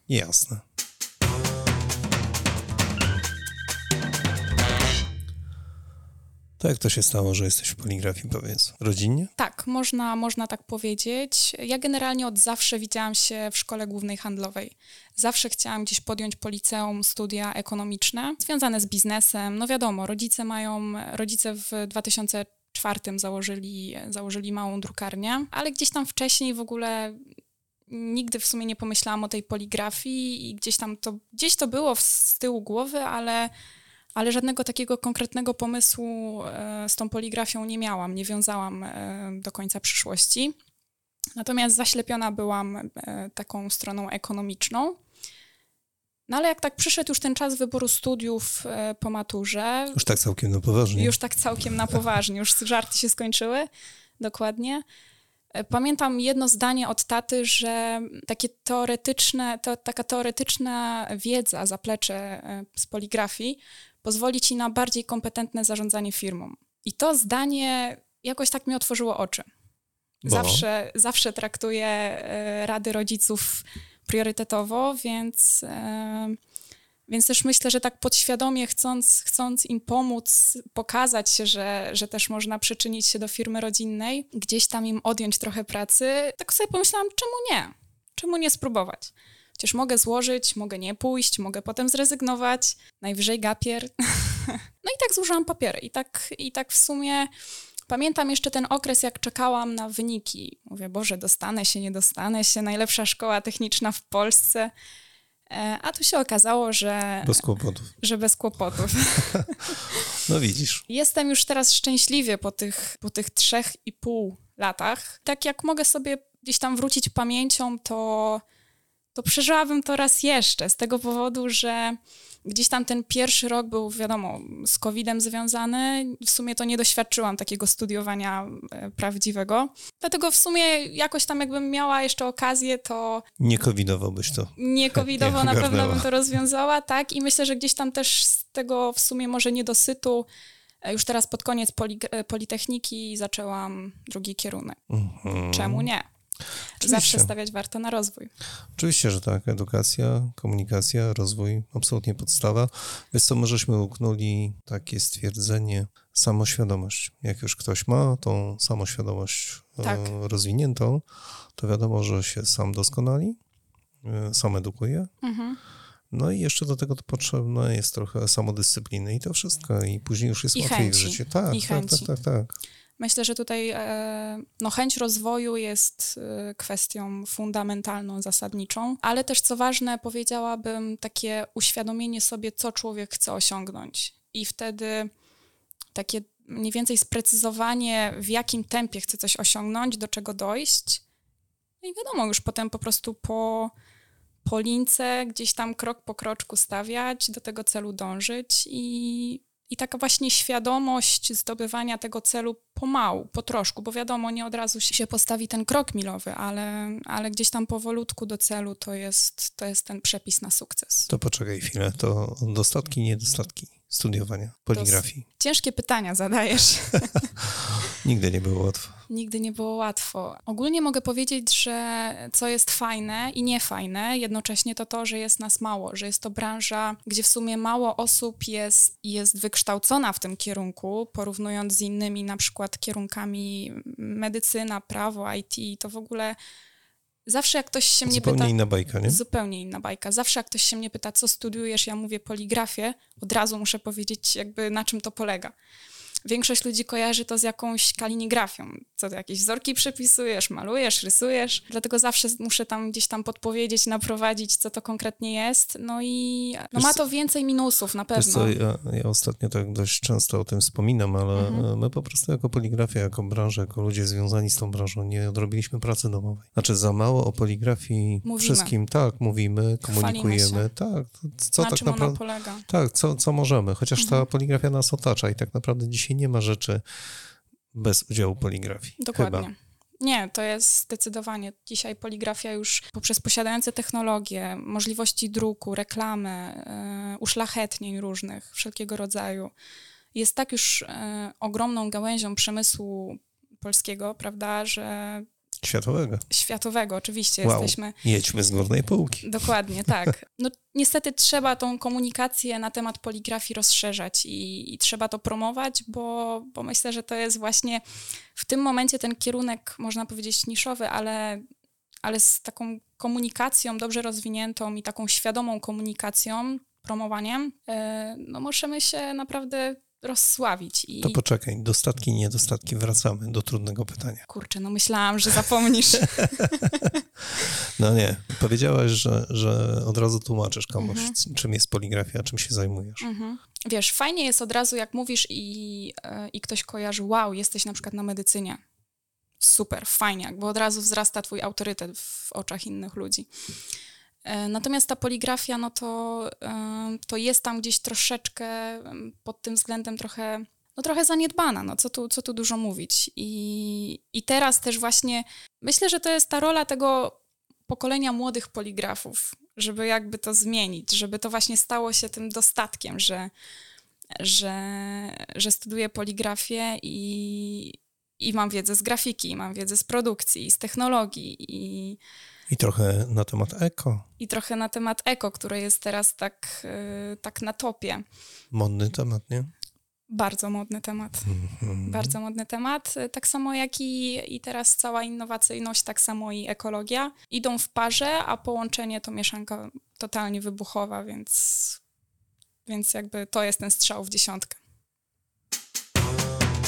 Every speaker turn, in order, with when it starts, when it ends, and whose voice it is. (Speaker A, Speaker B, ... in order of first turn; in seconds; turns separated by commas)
Speaker A: 0.1-0.6, Speaker A: 6.6-9.3, Speaker B: 9.4-27.2, Speaker B: 27.9-33.5, Speaker B: 34.1-40.5, Speaker B: 41.4-45.0, Speaker B: 46.3-50.0, Speaker A: 50.0-51.2, Speaker B: 50.9-54.9, Speaker B: 55.5-69.5, Speaker A: 70.2-70.7, Speaker B: 70.2-76.4, Speaker B: 77.1-97.3, Speaker B: 97.9-104.7, Speaker B: 105.5-107.5, Speaker A: 107.2-107.9, Speaker B: 108.0-110.0, Speaker A: 110.1-110.8, Speaker B: 110.9-118.4, Speaker B: 119.2-133.2, Speaker A: 133.4-136.1, Speaker B: 134.6-140.3, Speaker B: 140.8-144.8, Speaker A: 144.9-145.9, Speaker B: 145.4-146.1, Speaker B: 146.8-148.3, Speaker A: 146.8-147.3, Speaker A: 148.8-161.0, Speaker B: 159.8-160.1, Speaker A: 161.6-163.4, Speaker A: 164.0-165.1, Speaker B: 165.2-165.6, Speaker A: 166.1-172.6, Speaker B: 170.6-172.1, Speaker B: 173.0-185.1, Speaker B: 185.9-191.0, Speaker B: 191.8-193.7, Speaker B: 194.4-211.1, Speaker A: 211.1-215.2, Speaker B: 214.7-217.3, Speaker A: 218.0-219.0, Speaker B: 219.1-236.4, Speaker B: 237.3-245.6, Speaker A: 238.0-239.2, Speaker B: 246.2-258.6, Speaker A: 256.7-257.0, Speaker A: 258.1-276.8, Speaker B: 261.4-261.7, Speaker B: 268.2-268.7, Speaker B: 269.8-270.7, Speaker B: 271.6-272.7, Speaker B: 274.0-274.3, Speaker A: 277.7-279.5, Speaker B: 279.0-289.5, Speaker B: 290.1-295.3, Speaker A: 295.6-296.3, Speaker B: 296.3-298.0, Speaker A: 297.4-299.5, Speaker B: 299.2-307.8, Speaker B: 308.4-311.4, Speaker B: 312.0-321.2, Speaker A: 321.0-324.2, Speaker B: 324.3-326.8, Speaker A: 326.3-333.1, Speaker B: 330.8-331.2, Speaker B: 333.0-338.6, Speaker B: 339.4-343.3, Speaker B: 344.2-357.2, Speaker B: 357.7-363.3, Speaker B: 364.2-372.0, Speaker A: 372.5-374.1, Speaker B: 374.2-378.0, Speaker A: 378.5-379.5, Speaker B: 380.1-381.3, Speaker A: 381.2-382.1, Speaker B: 381.9-391.8, Speaker B: 392.7-394.6